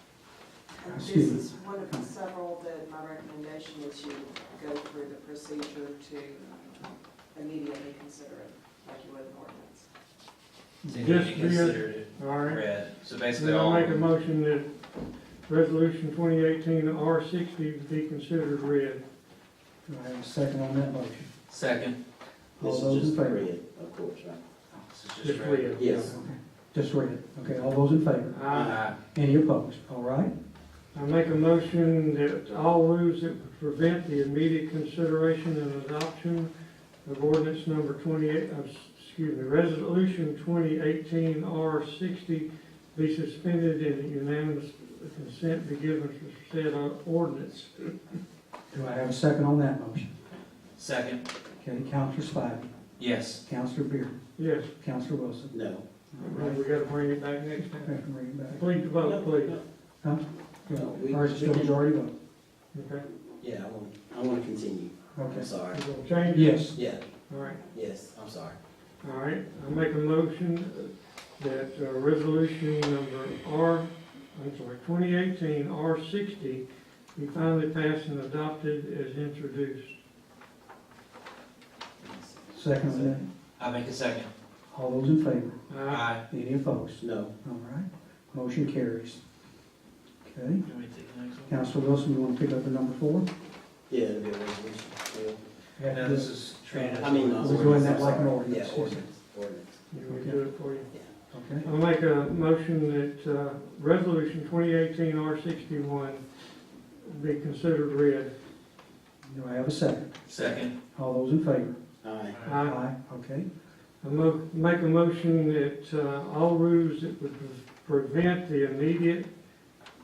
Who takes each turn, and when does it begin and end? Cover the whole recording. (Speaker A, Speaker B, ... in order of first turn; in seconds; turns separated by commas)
Speaker A: 0.8-6.6, Speaker B: 0.8-2.1, Speaker A: 7.3-9.8, Speaker B: 10.8-11.1, Speaker C: 10.9-14.0, Speaker D: 10.9-12.6, Speaker D: 13.3-14.7, Speaker D: 15.4-19.0, Speaker B: 19.9-21.3, Speaker C: 21.5-22.0, Speaker B: 22.6-23.5, Speaker E: 22.6-24.4, Speaker C: 24.9-25.8, Speaker D: 25.2-26.2, Speaker E: 25.8-26.2, Speaker B: 26.1-28.4, Speaker D: 28.3-28.8, Speaker E: 28.4-28.9, Speaker C: 28.7-29.0, Speaker B: 28.9-30.3, Speaker D: 30.9-36.5, Speaker D: 37.0-47.9, Speaker B: 48.7-50.1, Speaker C: 50.8-51.2, Speaker B: 51.6-52.7, Speaker C: 53.0-53.4, Speaker B: 53.4-54.2, Speaker D: 54.4-54.7, Speaker B: 54.7-55.5, Speaker E: 55.5-55.8, Speaker B: 56.1-56.6, Speaker D: 56.2-59.6, Speaker B: 57.7-58.7, Speaker E: 59.0-59.6, Speaker B: 60.0-62.1, Speaker E: 60.7-61.9, Speaker D: 62.7-63.0, Speaker E: 63.4-65.8, Speaker B: 65.1-65.5, Speaker D: 65.7-66.8, Speaker B: 66.3-66.8, Speaker E: 66.7-67.1, Speaker D: 67.3-67.6, Speaker E: 67.7-68.6, Speaker D: 69.0-79.9, Speaker E: 82.0-83.2, Speaker B: 82.5-83.2, Speaker C: 83.6-84.3, Speaker B: 84.7-85.7, Speaker D: 85.7-86.1, Speaker C: 85.9-86.2, Speaker B: 86.3-89.2, Speaker E: 87.0-87.3, Speaker B: 90.2-90.7, Speaker C: 90.6-91.5, Speaker B: 91.5-93.2, Speaker E: 93.9-95.4, Speaker B: 95.8-99.0, Speaker C: 95.9-98.1, Speaker E: 97.0-99.8, Speaker D: 99.9-100.9, Speaker B: 100.0-100.4, Speaker B: 101.3-101.7, Speaker D: 101.6-106.2, Speaker D: 107.0-108.3, Speaker B: 109.2-111.8, Speaker C: 110.3-110.7, Speaker E: 112.0-112.4, Speaker C: 112.3-112.6, Speaker D: 112.4-112.8, Speaker B: 112.4-113.5, Speaker D: 114.0-119.3